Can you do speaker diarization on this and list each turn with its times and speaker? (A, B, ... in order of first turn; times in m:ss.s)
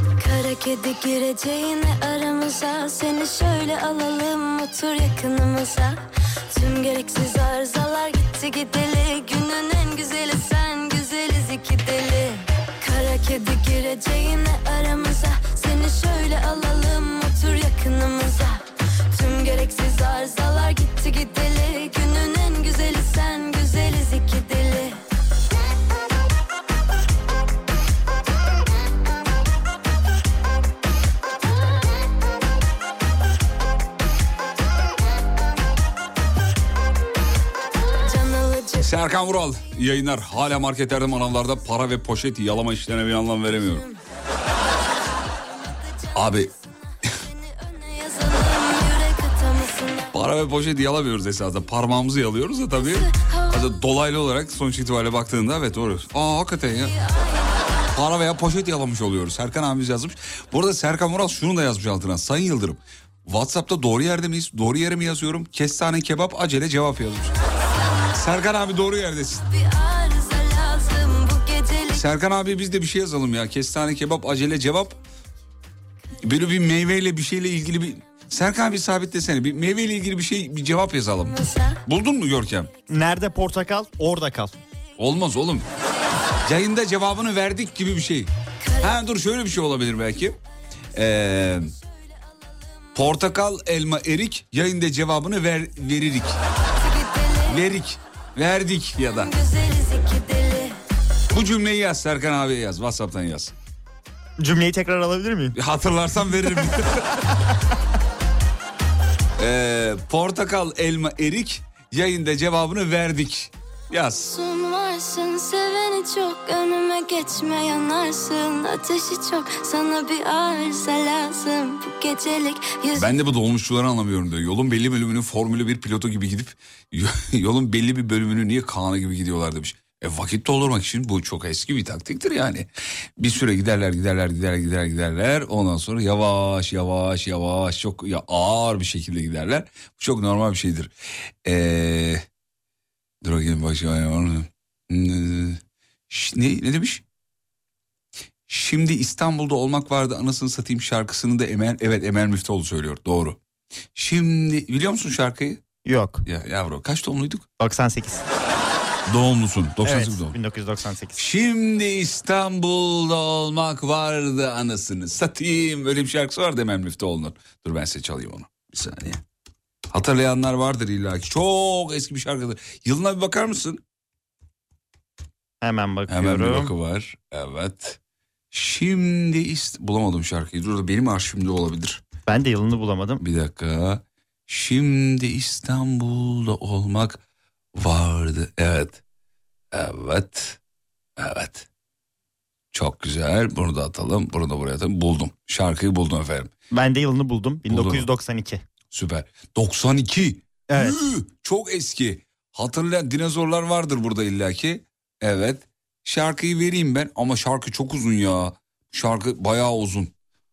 0:00.2-0:25.0 A
0:38.0-0:38.9 A
0:38.8-0:43.8 B
0:46.1-0:46.5 B
0:47.2-0:50.1 A
0:50.1-0:56.9 B
0:52.8-0:53.7 A
0:56.8-0:57.8 A
0:57.9-1:07.4 B
1:07.4-1:08.3 A
1:08.1-1:09.4 B
1:09.4-1:12.0 A
1:11.9-1:15.0 B
1:16.2-1:22.7 B
1:22.9-1:24.6 C
1:25.0-1:25.6 B
1:26.4-1:28.3 B
1:28.6-1:29.0 A
1:28.8-1:30.4 B
1:30.9-1:31.7 B
1:32.9-1:36.4 B
1:36.7-1:37.6 A
1:37.5-1:39.3 B
1:39.1-1:40.8 A
1:41.3-1:43.5 B
1:44.4-1:45.5 C
1:45.5-1:47.1 B
1:49.4-1:54.4 B
1:54.3-2:03.1 A
2:02.9-2:12.7 B
2:13.2-2:20.9 B
2:21.4-2:22.2 B
2:23.2-2:27.0 B
2:28.5-2:33.4 B
2:34.0-2:35.6 B
2:35.8-2:36.2 C
2:36.2-2:37.4 B
2:37.6-2:38.2 C
2:39.1-2:40.4 B
2:39.8-2:41.2 C
2:41.2-2:49.2 B
2:49.9-2:53.8 B
2:55.6-2:56.7 C
2:56.1-2:58.0 B
2:58.5-3:02.0 B
3:02.2-3:03.2 C
3:03.2-3:07.2 B
3:07.7-3:09.0 B
3:09.7-3:10.6 B
3:11.2-3:11.6 B
3:12.7-3:16.5 B
3:16.7-3:18.6 C
3:17.7-3:18.1 B
3:18.9-3:30.1 B
3:20.7-3:21.0 C